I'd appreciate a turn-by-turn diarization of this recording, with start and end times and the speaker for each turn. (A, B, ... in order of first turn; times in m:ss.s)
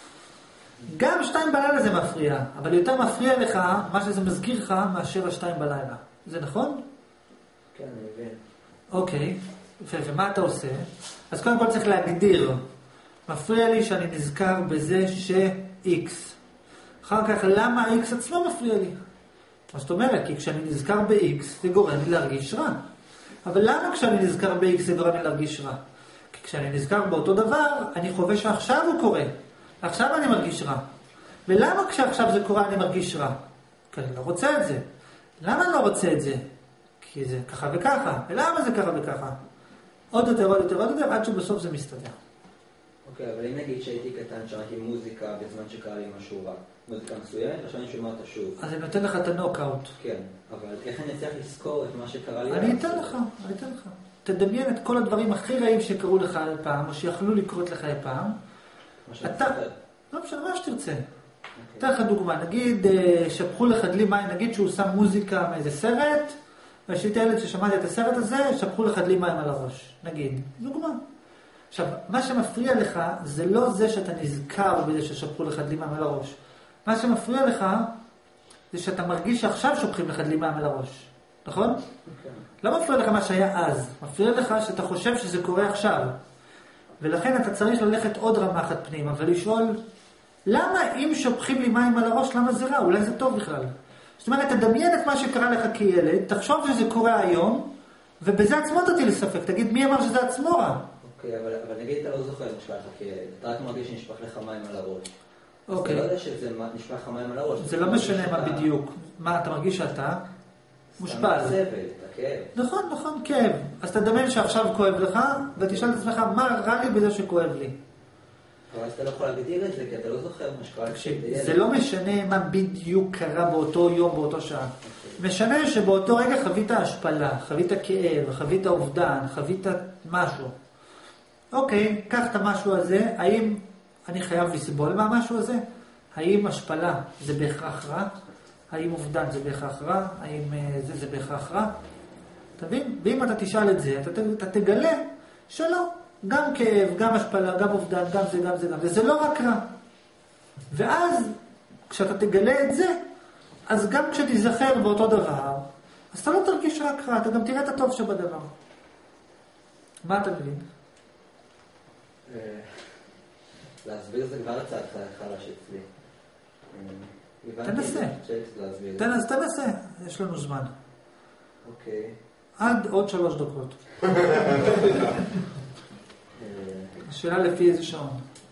0:00.9-0:06.8 A
0:07.7-0:08.4 B
0:08.9-0:12.6 A
0:13.3-0:16.4 A
0:17.0-0:19.0 A
0:19.7-0:22.8 A
0:23.4-0:25.8 A
0:26.3-0:30.8 A
0:31.5-0:33.4 A
0:33.9-0:34.8 A
0:35.4-0:36.5 A
0:37.0-0:39.4 A
0:40.1-0:42.2 A
0:43.0-0:48.6 B
0:48.6-0:49.9 A
0:50.0-0:53.2 B
0:52.5-0:58.4 A
0:59.0-0:59.7 B
0:59.2-0:59.6 A
1:00.1-1:01.0 A
1:01.6-1:01.9 B
1:01.8-1:06.4 A
1:06.9-1:11.0 A
1:11.7-1:17.9 A
1:18.7-1:21.8 A
1:22.0-1:22.5 B
1:22.6-1:26.1 A
1:27.0-1:29.8 A
1:30.5-1:37.7 A
1:38.2-1:40.8 A
1:41.0-1:45.1 B
1:45.7-1:46.1 A
1:45.7-1:48.7 B
1:47.6-1:50.2 A
1:51.0-1:52.5 B
1:51.0-1:51.6 A
1:52.5-1:57.8 A
1:58.7-2:01.6 B
2:00.9-2:10.5 A
2:04.9-2:05.2 B
2:11.5-2:15.6 A
2:16.1-2:18.1 A
2:18.7-2:21.7 A
2:22.6-2:29.7 A
2:30.7-2:31.4 A
2:31.9-2:33.0 A
2:33.7-2:38.5 A
2:40.0-2:40.6 A
2:42.2-2:43.0 B
2:43.8-2:45.9 B
2:46.7-2:49.2 B
2:47.6-2:48.2 A
2:49.0-2:50.7 A
2:51.6-2:52.2 B
2:52.6-2:54.7 A
2:56.4-2:57.0 B
2:57.0-2:58.2 A